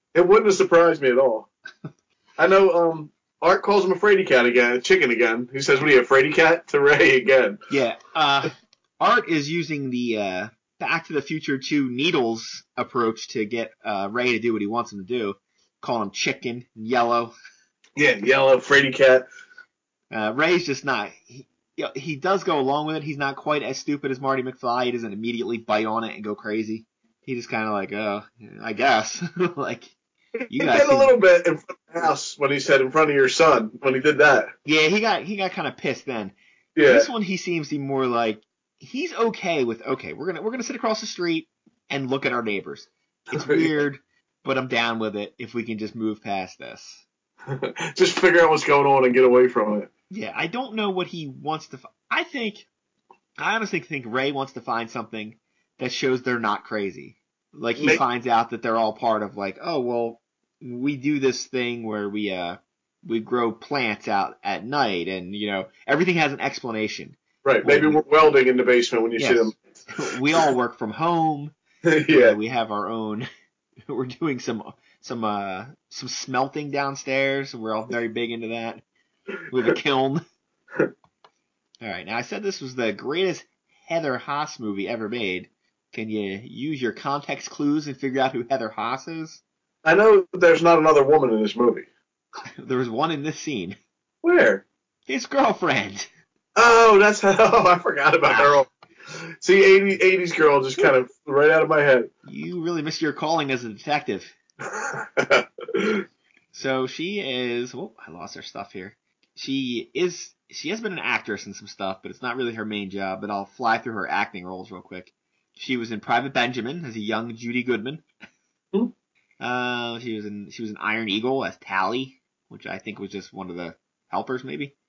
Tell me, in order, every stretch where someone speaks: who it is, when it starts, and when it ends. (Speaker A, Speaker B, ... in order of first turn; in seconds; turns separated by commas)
Speaker A: 0.1-1.5, Speaker A: 2.4-7.6, Speaker B: 7.7-17.3, Speaker A: 18.0-19.3, Speaker B: 20.1-29.9, Speaker B: 30.5-31.1, Speaker A: 30.5-34.5, Speaker B: 34.7-47.0, Speaker A: 36.8-37.1, Speaker A: 43.3-43.7, Speaker A: 47.5-49.9, Speaker B: 50.1-52.7, Speaker B: 53.4-68.3, Speaker A: 67.4-69.6, Speaker B: 69.2-71.5, Speaker A: 71.9-72.4, Speaker B: 72.1-73.3, Speaker B: 73.9-78.8, Speaker B: 79.5-80.2, Speaker B: 81.8-89.4, Speaker A: 89.8-91.9, Speaker B: 92.6-93.8, Speaker A: 94.2-94.6, Speaker B: 95.1-96.1, Speaker A: 96.6-98.7, Speaker A: 99.4-102.1, Speaker B: 102.2-104.3, Speaker A: 104.7-106.0, Speaker B: 106.5-118.0, Speaker B: 119.4-124.7